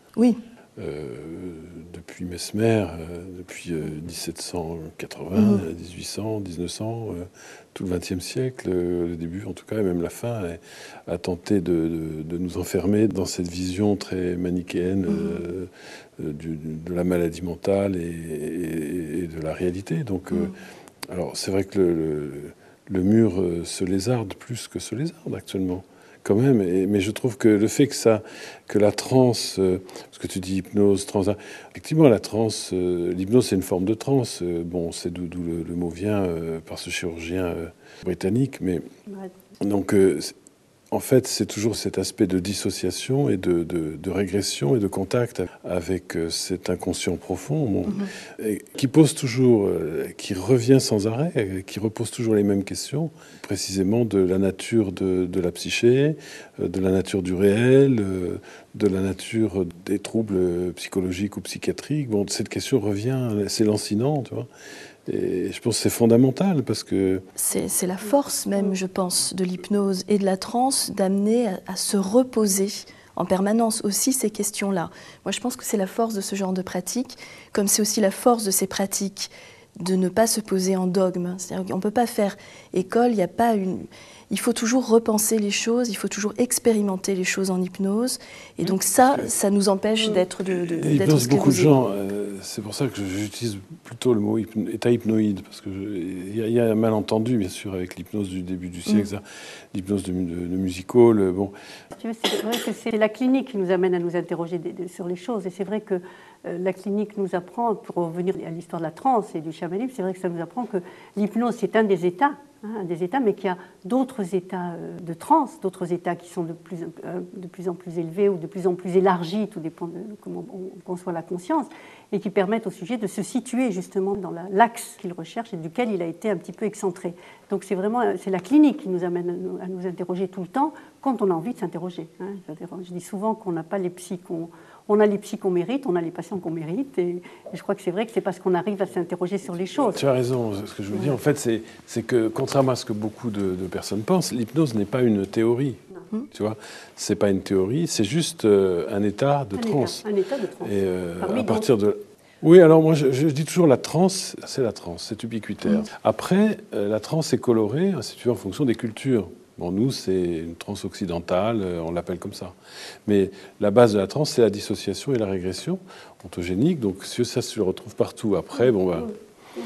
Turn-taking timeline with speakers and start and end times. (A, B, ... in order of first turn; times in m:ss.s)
0:00.8-0:15.7 A
0:05.4-0:05.6 B
0:15.1-0:15.4 B
0:16.2-0:20.5 A
0:21.1-0:38.8 A
0:39.6-0:40.3 A
0:40.9-1:04.5 A
1:05.1-1:07.2 A
1:07.4-1:31.7 B
1:29.0-1:29.2 A
1:30.8-1:41.5 A
1:42.0-2:20.0 C
2:19.9-2:30.0 A
2:29.5-2:31.7 C
2:30.6-2:42.6 A
2:43.1-2:49.1 A